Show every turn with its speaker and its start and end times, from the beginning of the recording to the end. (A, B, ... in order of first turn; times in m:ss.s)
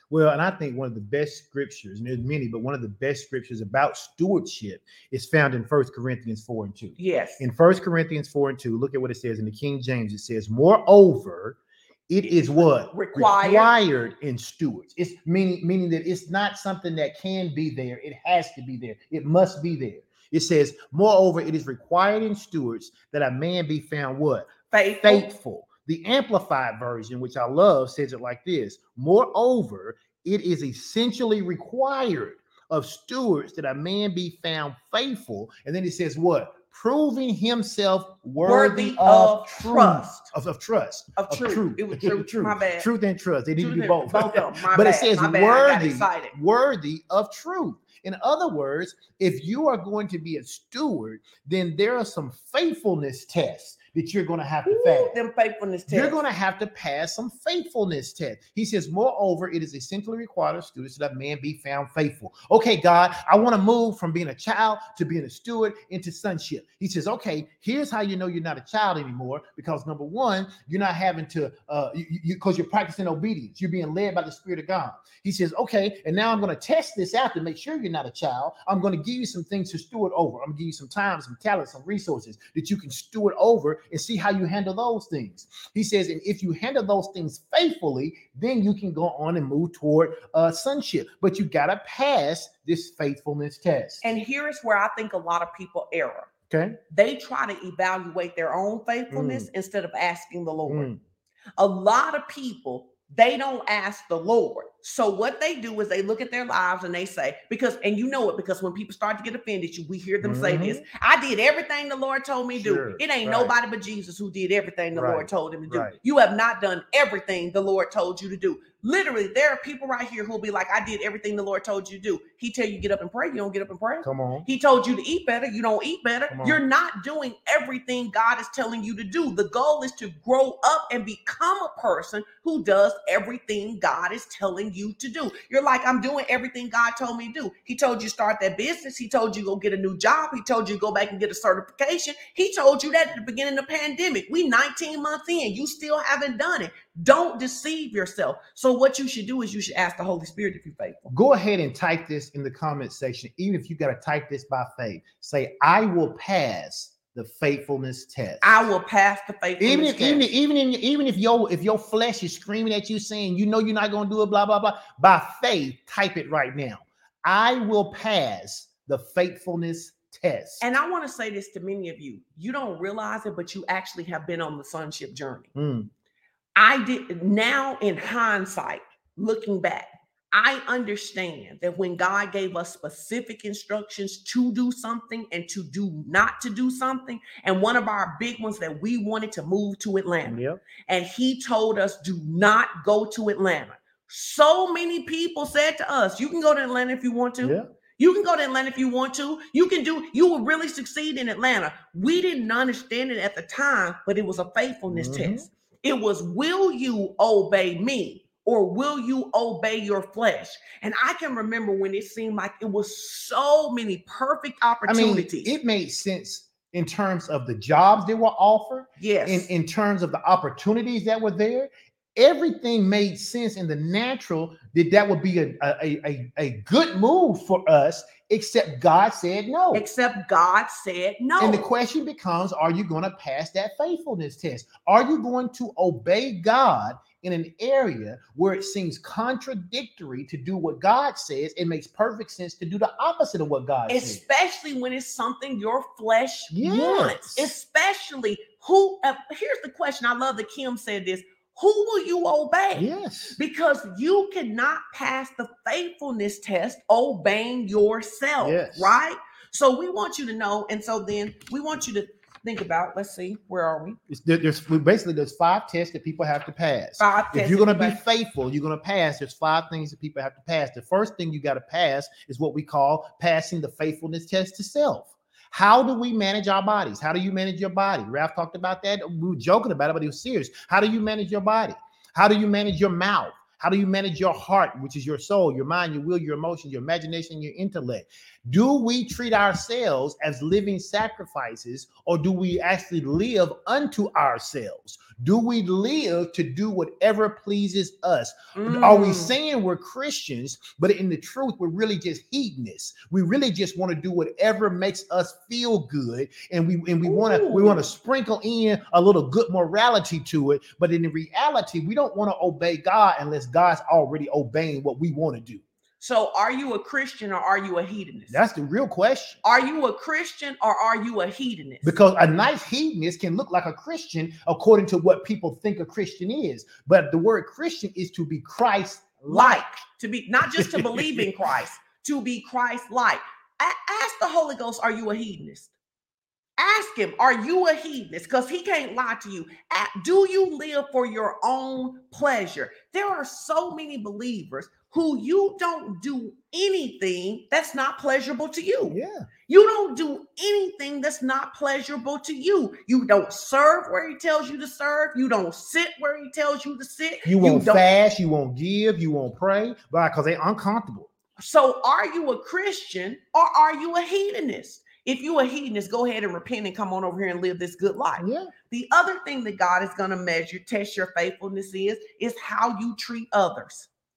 0:00.1-0:24.5 A
0:07.0-0:07.4 B
0:12.2-0:13.7 B
0:24.7-0:25.3 B
0:25.0-0:55.2 A
0:38.4-0:40.3 B
0:41.2-0:42.9 B
0:43.6-0:46.3 B
0:54.6-0:56.2 B
0:55.9-1:34.0 A
1:34.0-1:36.3 B
1:36.5-1:36.8 A
1:36.9-1:40.9 B
1:39.1-1:39.5 A
1:40.7-1:41.0 A
1:41.6-2:31.1 B
1:50.2-1:50.8 A
1:52.6-1:53.5 A
1:54.9-1:56.0 A
2:04.0-2:04.5 A
2:06.3-2:06.6 A
2:31.1-2:38.6 A
2:38.4-2:40.3 B
2:39.6-2:50.6 A
2:50.6-2:55.5 B
2:55.6-2:55.9 A
2:56.6-3:35.5 B
3:10.3-3:10.6 A
3:24.9-3:25.5 A
3:34.9-3:49.8 A
3:39.0-3:39.5 B
3:49.7-3:51.7 B
3:51.4-4:04.2 A
4:03.9-4:24.0 B
4:06.5-4:07.5 A
4:12.8-4:13.4 A
4:18.4-4:19.0 A
4:24.1-5:15.6 A
4:27.0-4:28.0 B
4:58.6-4:59.4 B
5:07.0-5:07.8 B
5:16.0-5:18.4 B
5:18.3-5:19.4 A
5:19.4-5:22.0 B
5:21.8-5:29.8 A
5:29.3-5:35.7 B
5:30.4-5:31.3 A
5:36.6-5:57.8 B
5:48.9-5:49.3 A
5:57.2-6:01.1 A
6:01.4-6:13.9 B
6:08.2-6:08.5 A